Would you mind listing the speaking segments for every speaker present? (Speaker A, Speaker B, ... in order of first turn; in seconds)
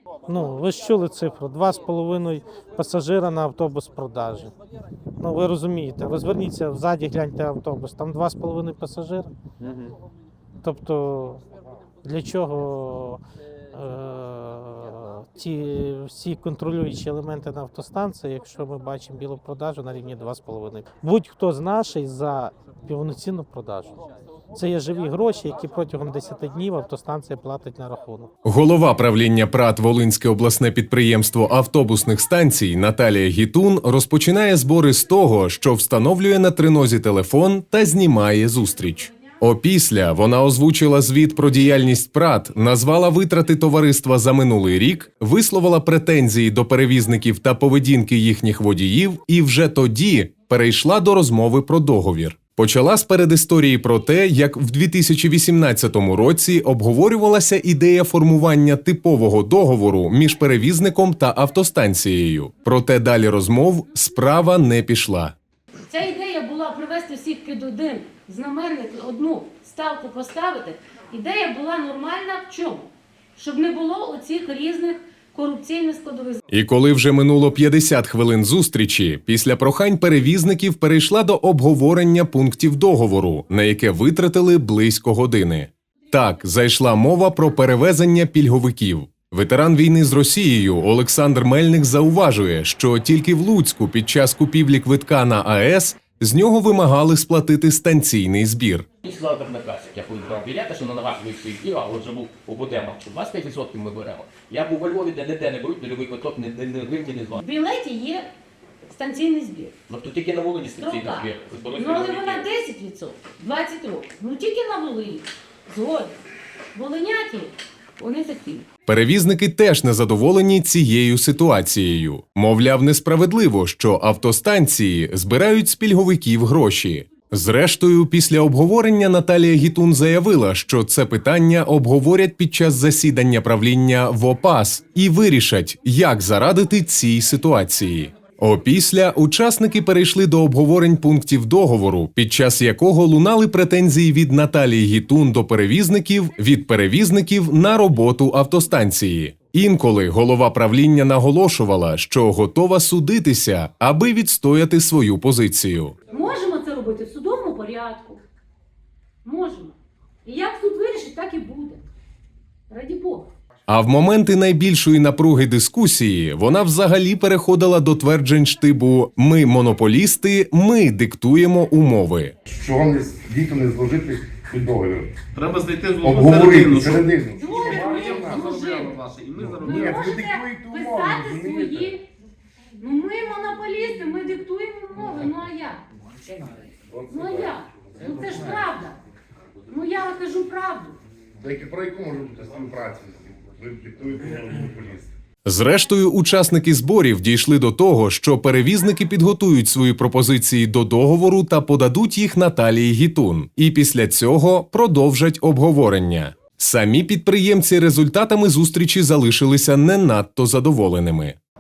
Speaker A: 0.3-4.5, 5.2-9.3, 10.6-11.4, 12.0-13.2, 13.7-28.3
Speaker B: 28.4-65.3, 76.5-98.9, 118.9-156.0, 163.7-172.3, 195.4-211.4
Speaker C: 65.9-76.4, 107.4-108.3, 108.9-109.8, 110.8-116.2, 116.7-118.7, 156.1-158.2, 159.2-161.8, 162.7-163.3, 177.3-179.0, 179.6-182.0, 182.8-185.8, 187.1-189.0, 189.7-191.0
Speaker D: 99.0-107.4, 109.9-112.4
Speaker E: 172.5-175.1, 176.0-178.6, 179.4-181.9, 186.9-188.6, 191.4-195.1
Speaker F: 175.6-177.0, 178.6-179.5